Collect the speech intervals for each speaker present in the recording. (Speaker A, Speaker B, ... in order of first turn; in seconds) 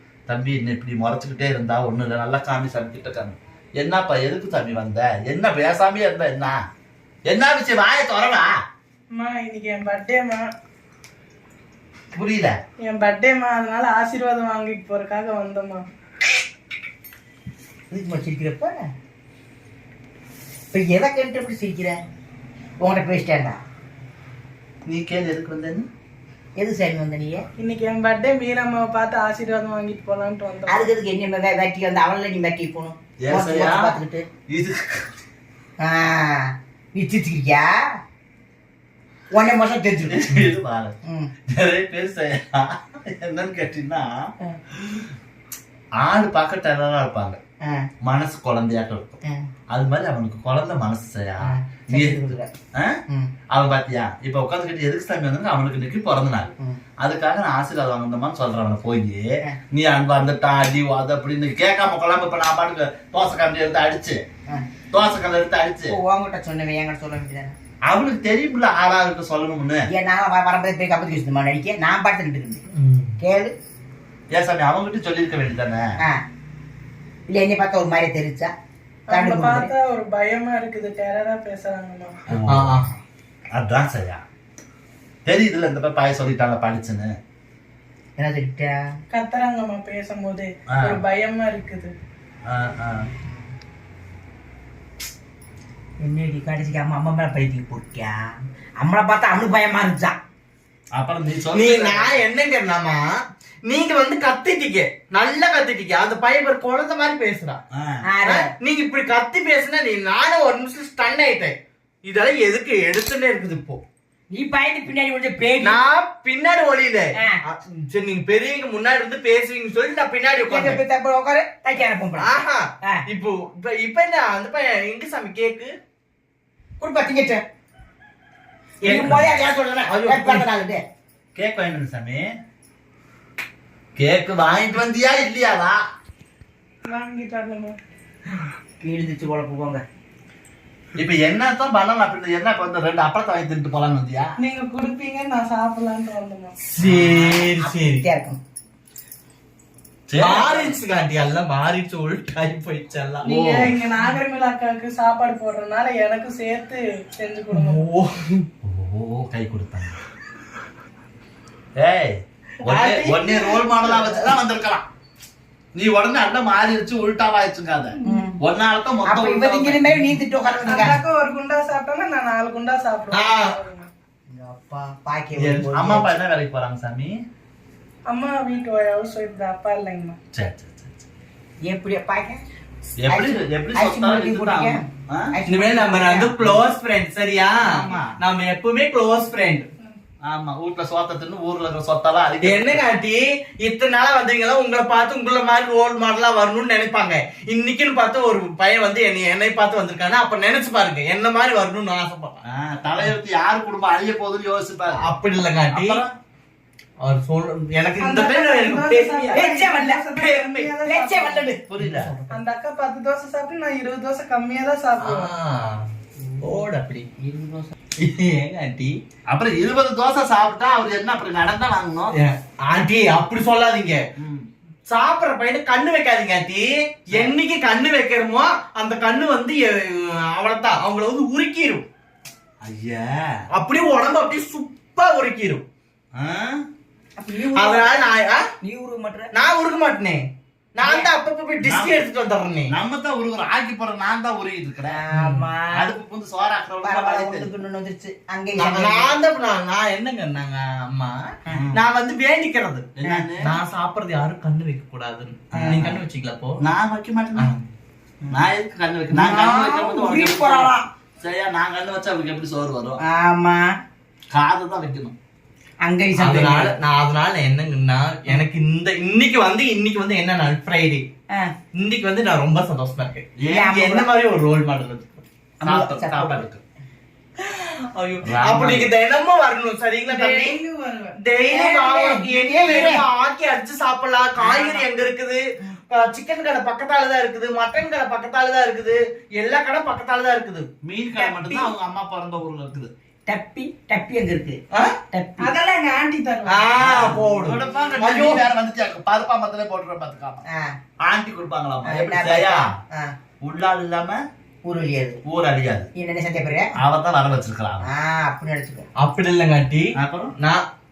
Speaker A: 0.3-6.6, 7.2-8.5, 12.1-12.6, 24.9-25.9, 33.2-34.0, 34.5-35.0, 40.1-41.0, 41.5-44.1, 44.7-45.1, 46.0-47.4, 48.0-49.2, 49.7-53.0, 53.5-64.2, 64.9-66.0, 67.9-69.8, 72.7-73.1, 74.3-75.9, 82.3-82.9, 83.5-84.2, 85.2-87.1, 90.7-91.0, 92.5-93.1, 100.9-102.2, 107.7-108.0, 129.0-129.3, 131.3-132.2, 133.9-135.8, 140.9-144.3, 146.8-147.4, 150.1-150.7, 153.2-153.8, 158.6-160.0, 161.8-164.8, 165.8-170.2, 175.4-177.1, 180.3-181.0, 183.0-185.3, 187.6-188.2, 190.2-192.9, 202.4-205.1, 205.7-206.1, 211.7-212.2, 219.3-222.1, 224.2-224.5, 232.6-233.3, 236.2-236.6, 241.6-242.0, 242.7-245.0, 245.7-247.5, 251.5-251.8, 252.9-253.6, 255.5-256.0, 256.6-257.5, 258.3-263.0, 264.3-265.1, 273.4-273.7, 275.6-276.6, 278.2-278.9, 290.8-292.9, 296.8-300.4, 301.0-302.7, 303.4-304.2, 305.2-305.9, 306.8-307.9, 309.9-310.3
Speaker B: 9.1-10.4, 12.8-15.8, 27.6-30.9, 79.1-82.2, 89.1-91.9, 136.8-137.8, 144.4-146.5, 153.2-157.9, 162.8-164.1, 170.7-173.9, 178.1-180.2, 208.0-211.5, 212.3-215.3, 280.1-281.2, 295.4-296.7
Speaker C: 17.9-18.9, 20.7-22.0, 22.8-23.6, 26.6-27.4, 30.7-34.2, 35.8-37.8, 39.3-40.4, 51.4-52.5, 65.9-67.5, 69.9-72.6, 73.2-73.5, 77.3-78.5, 79.1-79.7, 88.2-88.8, 96.0-98.2, 98.8-100.2, 108.0-108.5, 114.3-115.8, 120.5-122.3, 126.8-127.4, 128.8-130.8, 138.8-139.8, 147.6-148.4, 168.1-168.4, 169.0-171.0, 174.3-176.1, 181.6-182.4, 183.1-186.3, 209.3-210.1, 210.8-211.6, 216.2-216.6, 217.2-217.7, 237.2-238.1, 238.6-239.3, 240.8-241.1, 244.9-245.9, 246.8-249.1, 253.0-253.3, 255.5-255.8, 259.1-260.9, 263.0-263.7, 265.8-266.7, 273.4-274.1, 275.6-276.4, 281.5-283.1, 284.4-284.9, 291.1-291.7, 293.2-294.6, 295.1-295.5, 301.8-303.1, 304.6-305.2, 305.9-306.7, 307.8-308.9
Speaker D: 82.5-82.9, 101.5-103.0, 103.6-107.6, 108.2-113.8, 115.6-120.8, 122.2-125.7, 128.8-129.4, 129.9-130.4, 146.7-148.0, 150.2-153.2, 157.5-158.5, 162.7-163.1, 173.1-173.6, 185.5-189.7, 192.4-202.4, 205.0-206.0, 207.0-209.4, 210.2-210.7, 211.8-212.2, 215.0-215.9, 216.4-217.1, 218.0-219.0, 222.1-224.0, 224.9-231.8, 233.5-235.6, 237.5-238.4, 239.3-240.2, 240.7-242.7, 245.1-245.5, 248.6-252.9, 253.4-256.6, 257.4-257.6, 266.2-271.1, 271.8-275.1, 277.4-280.6, 281.2-290.7, 296.5-298.4, 309.0-310.6